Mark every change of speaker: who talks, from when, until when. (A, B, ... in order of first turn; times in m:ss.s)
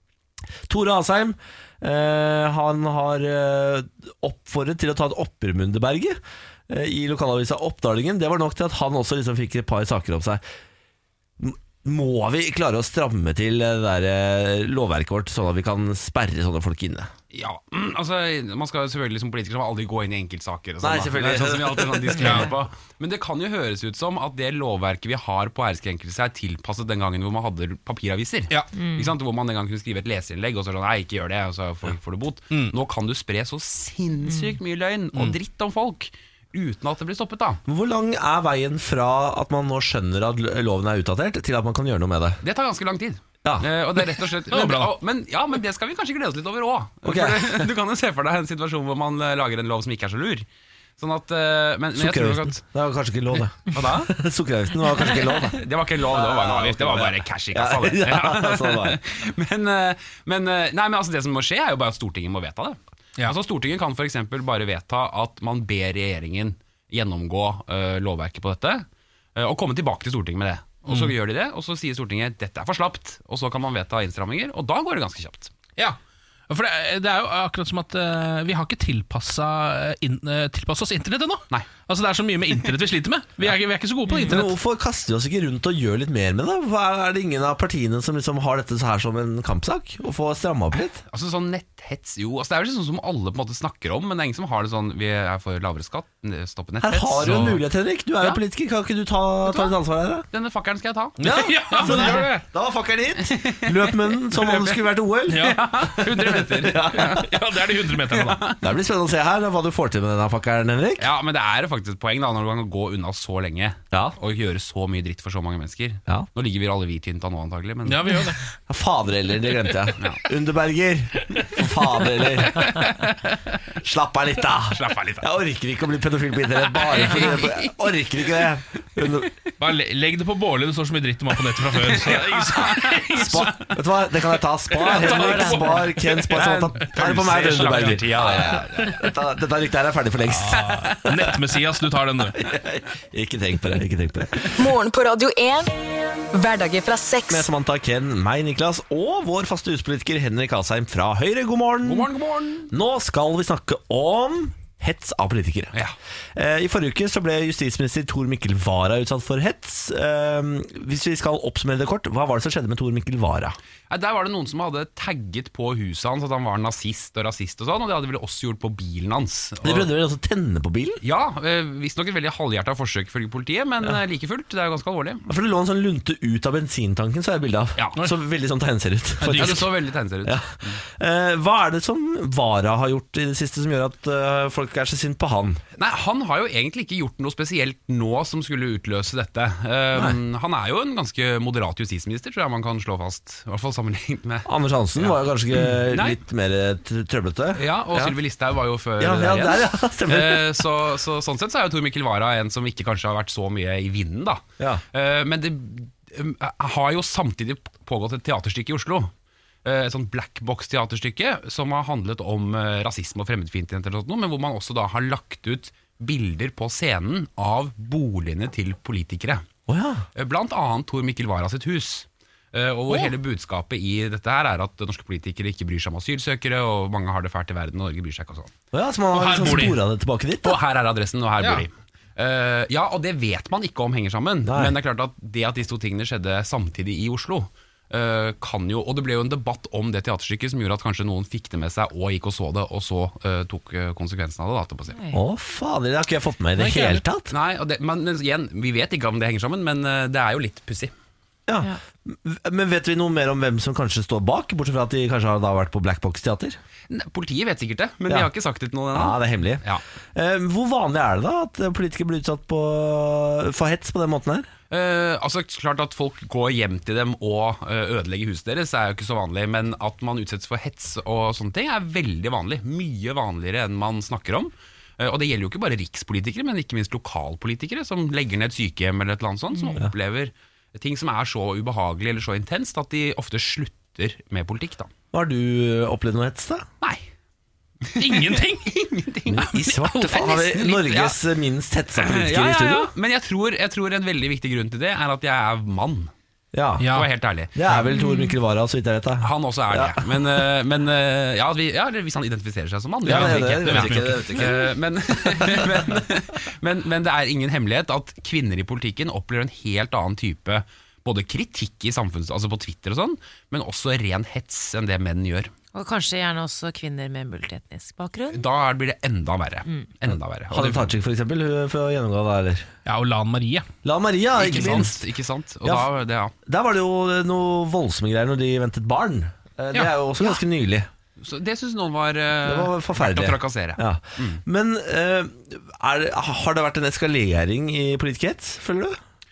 0:00.7-0:06.2 A
0:06.7-0:10.4 A
0:11.4-0:17.1 A
0:17.3-0:37.6 B
0:20.8-0:22.5 A
0:22.2-0:22.5 C
0:28.7-0:29.1 D
0:37.7-0:42.4 A
0:42.4-0:50.5 B
0:44.5-0:44.9 C
0:47.0-0:47.7 A
0:51.0-0:52.6 B
0:52.0-0:59.0 A
0:53.7-0:54.1 B
0:55.5-1:15.5 B
1:10.9-1:11.1 C
1:16.5-1:24.5 C
1:24.2-1:31.0 A
1:31.1-1:37.5 B
1:36.8-1:40.3 A
1:37.2-1:37.6 C
1:39.5-1:39.7 B
1:40.3-1:41.2 B
1:41.2-1:42.4 C
1:41.2-1:45.6 A
1:41.7-1:42.3 B
1:43.3-1:44.8 B
1:45.3-1:45.8 C
1:45.4-1:47.3 B
1:46.1-1:47.2 A
1:46.9-1:48.4 C
1:48.1-1:48.6 B
1:48.6-1:51.1 A
1:51.0-1:58.2 B
1:57.9-1:58.4 C
1:58.7-2:02.8 A
2:02.6-2:03.6 B
2:03.8-2:09.3 A
2:04.7-2:05.3 B
2:06.7-2:07.7 B
2:09.6-2:13.6 C
2:11.8-2:13.6 B
2:13.2-2:21.3 A
2:14.7-2:16.9 C
2:16.3-2:19.1 B
2:17.6-2:18.0 C
2:20.3-2:22.4 C
2:22.4-2:24.5 A
2:24.5-2:25.7 E
2:26.3-2:27.5 E
2:27.3-2:32.1 A
2:31.8-2:32.7 B
2:32.7-2:35.8 A
2:36.4-2:43.6 A
2:43.9-2:49.9 B
2:49.6-2:51.0 A
2:51.0-2:55.2 B
2:55.3-2:59.7 A
2:59.2-2:59.7 C
2:59.3-3:00.8 B
3:00.2-3:05.6 A
3:05.8-3:14.5 B
3:14.5-3:18.2 A
3:15.0-3:16.2 B
3:17.6-3:29.1 B
3:19.0-3:20.5 A
3:29.6-3:39.4 B
3:39.7-3:40.1 A
3:40.2-3:48.5 B
3:48.7-3:50.6 A
3:49.1-3:49.8 C
3:50.4-4:05.0 B
3:51.4-3:51.6 C
3:54.5-3:54.8 A
4:04.9-4:05.2 D
4:05.1-4:07.3 A
4:06.6-4:07.0 C
4:07.3-4:10.9 B
4:11.5-4:16.6 A
4:16.9-4:19.8 B
4:18.9-4:19.6 A
4:20.1-4:24.5 A
4:24.7-4:44.9 B
4:39.5-4:39.8 D
4:45.1-4:46.7 A
4:47.8-4:51.2 B
4:48.0-4:48.7 C
4:49.3-4:52.9 A
4:52.0-4:56.1 B
4:56.5-4:56.9 A
4:56.8-4:57.1 C
4:56.9-4:57.5 B
4:57.6-5:00.3 A
4:58.0-4:58.3 D
4:59.2-5:15.5 B
5:03.0-5:04.7 A
5:03.1-5:04.5 C
5:15.7-5:18.4 D
5:18.3-5:20.9 B
5:20.5-5:22.7 A
5:22.9-5:23.7 C
5:23.8-5:25.0 A
5:24.3-5:26.3 B
5:26.5-5:30.9 A
5:31.2-5:34.4 B
5:32.4-5:39.0 A